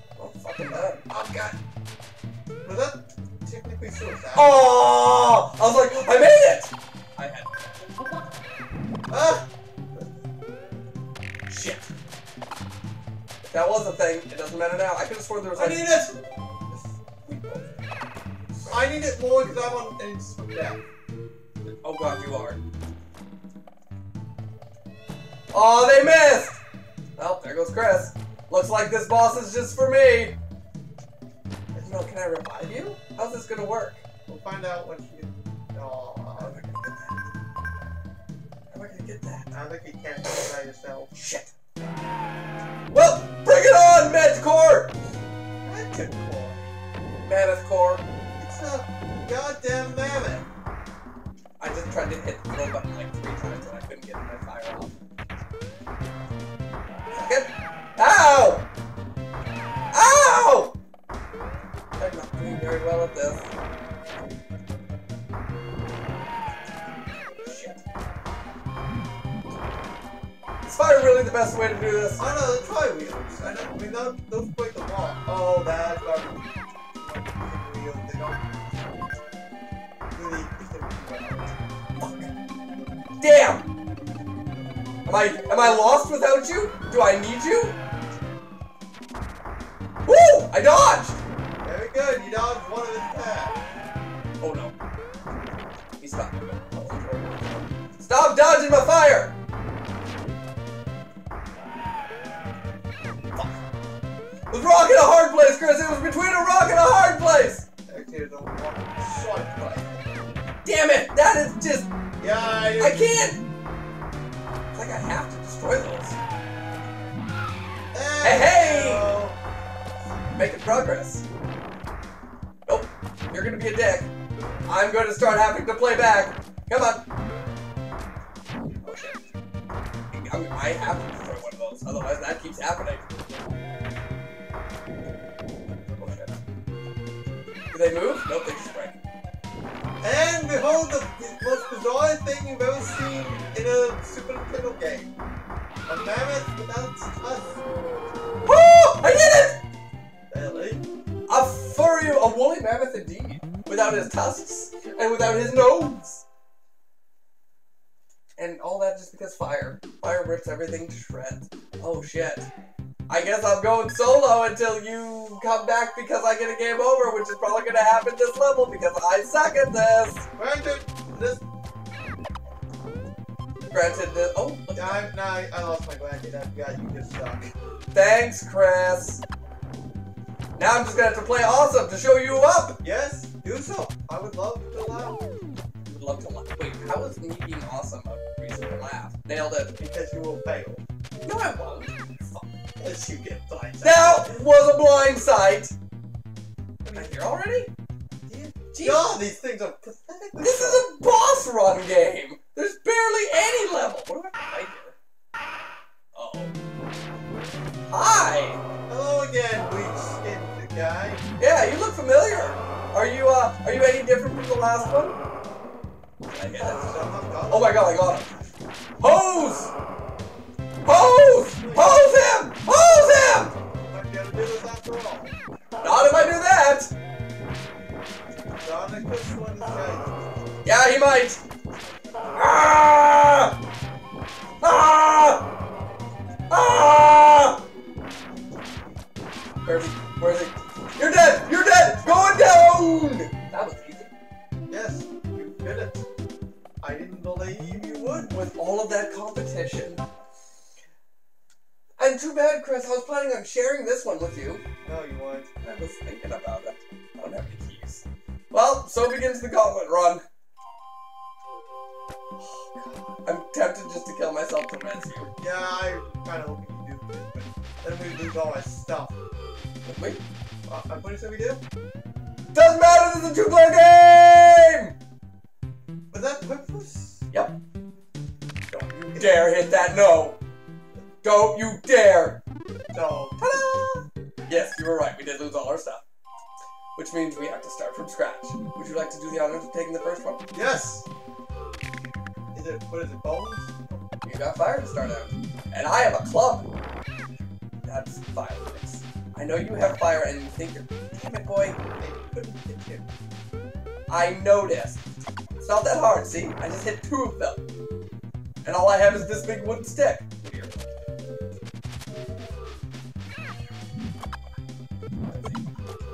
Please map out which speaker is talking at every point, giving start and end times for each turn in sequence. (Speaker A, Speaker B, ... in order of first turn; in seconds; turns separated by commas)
Speaker A: 0.1-1.0, Speaker B: 1.0-1.6, Speaker B: 2.6-4.7, Speaker A: 4.3-7.6, Speaker B: 9.1-9.5, Speaker A: 11.5-11.9, Speaker A: 13.4-16.0, Speaker B: 15.5-16.2, Speaker A: 17.2-17.7, Speaker B: 18.6-20.8, Speaker A: 21.8-22.6, Speaker A: 25.5-26.6, Speaker A: 27.2-30.4, Speaker B: 31.7-32.1, Speaker A: 31.8-34.0, Speaker B: 34.3-36.6, Speaker A: 36.4-37.2, Speaker A: 38.7-39.5, Speaker B: 39.5-41.1, Speaker A: 41.1-41.5, Speaker A: 42.9-44.9, Speaker B: 45.6-46.7, Speaker A: 47.2-48.0, Speaker B: 48.4-50.5, Speaker A: 51.6-55.0, Speaker A: 57.1-58.7, Speaker A: 59.9-60.8, Speaker A: 62.0-63.5, Speaker A: 67.4-67.8, Speaker A: 70.6-72.3, Speaker B: 72.2-78.9, Speaker B: 80.1-81.5, Speaker A: 82.0-82.3, Speaker A: 83.2-83.7, Speaker A: 85.0-87.8, Speaker A: 90.0-91.2, Speaker B: 91.6-93.6, Speaker A: 94.4-94.7, Speaker A: 96.0-99.3, Speaker A: 104.5-107.7, Speaker B: 107.9-110.2, Speaker A: 110.6-111.9, Speaker B: 112.2-113.0, Speaker A: 112.8-113.4, Speaker A: 114.7-116.2, Speaker B: 117.9-119.4, Speaker A: 118.2-119.2, Speaker A: 120.3-121.2, Speaker A: 122.7-124.1, Speaker A: 124.7-127.0, Speaker A: 128.8-129.2, Speaker A: 130.1-133.1, Speaker A: 136.0-136.4, Speaker A: 137.7-139.0, Speaker B: 140.0-145.1, Speaker B: 145.9-147.6, Speaker A: 148.4-149.6, Speaker B: 150.3-150.8, Speaker A: 151.3-156.2, Speaker A: 158.4-162.5, Speaker A: 163.1-170.3, Speaker B: 170.3-171.4, Speaker A: 173.7-175.1, Speaker B: 174.8-177.5, Speaker A: 177.9-179.2, Speaker A: 180.6-182.8, Speaker B: 182.8-185.3, Speaker A: 185.8-189.8, Speaker B: 189.8-190.8, Speaker A: 191.2-192.6, Speaker B: 192.8-194.3, Speaker A: 193.8-195.7, Speaker B: 196.8-197.2, Speaker A: 196.9-197.7, Speaker B: 198.2-200.8, Speaker A: 198.7-199.1, Speaker A: 200.4-204.9, Speaker A: 206.1-206.5, Speaker A: 207.9-208.6, Speaker B: 208.9-211.2, Speaker A: 211.4-215.2, Speaker A: 216.3-219.7, Speaker B: 216.6-217.9, Speaker A: 220.8-223.6, Speaker B: 221.6-222.2, Speaker B: 223.7-225.3, Speaker A: 225.8-226.9, Speaker B: 228.6-230.6, Speaker A: 230.6-231.4, Speaker A: 232.3-233.6, Speaker A: 234.6-235.5, Speaker A: 236.5-237.6, Speaker A: 239.6-244.1, Speaker B: 244.7-246.1, Speaker B: 246.8-248.3, Speaker A: 248.1-250.0, Speaker A: 252.0-254.6, Speaker B: 254.8-255.5, Speaker A: 255.6-260.2, Speaker B: 262.4-263.2, Speaker A: 263.2-265.3, Speaker B: 265.4-269.1, Speaker A: 269.8-270.2, Speaker B: 270.7-271.6, Speaker A: 272.5-274.9, Speaker B: 276.1-277.2, Speaker A: 277.3-277.6, Speaker A: 278.7-280.4, Speaker B: 279.1-279.4, Speaker A: 281.2-282.4, Speaker B: 282.9-283.4, Speaker A: 283.4-286.0, Speaker A: 286.9-290.4, Speaker B: 290.5-291.1, Speaker B: 292.5-294.0, Speaker A: 294.2-296.7, Speaker A: 297.8-301.8, Speaker B: 302.0-303.1, Speaker A: 304.1-305.0, Speaker A: 305.6-307.6, Speaker A: 308.6-310.8, Speaker A: 315.3-315.7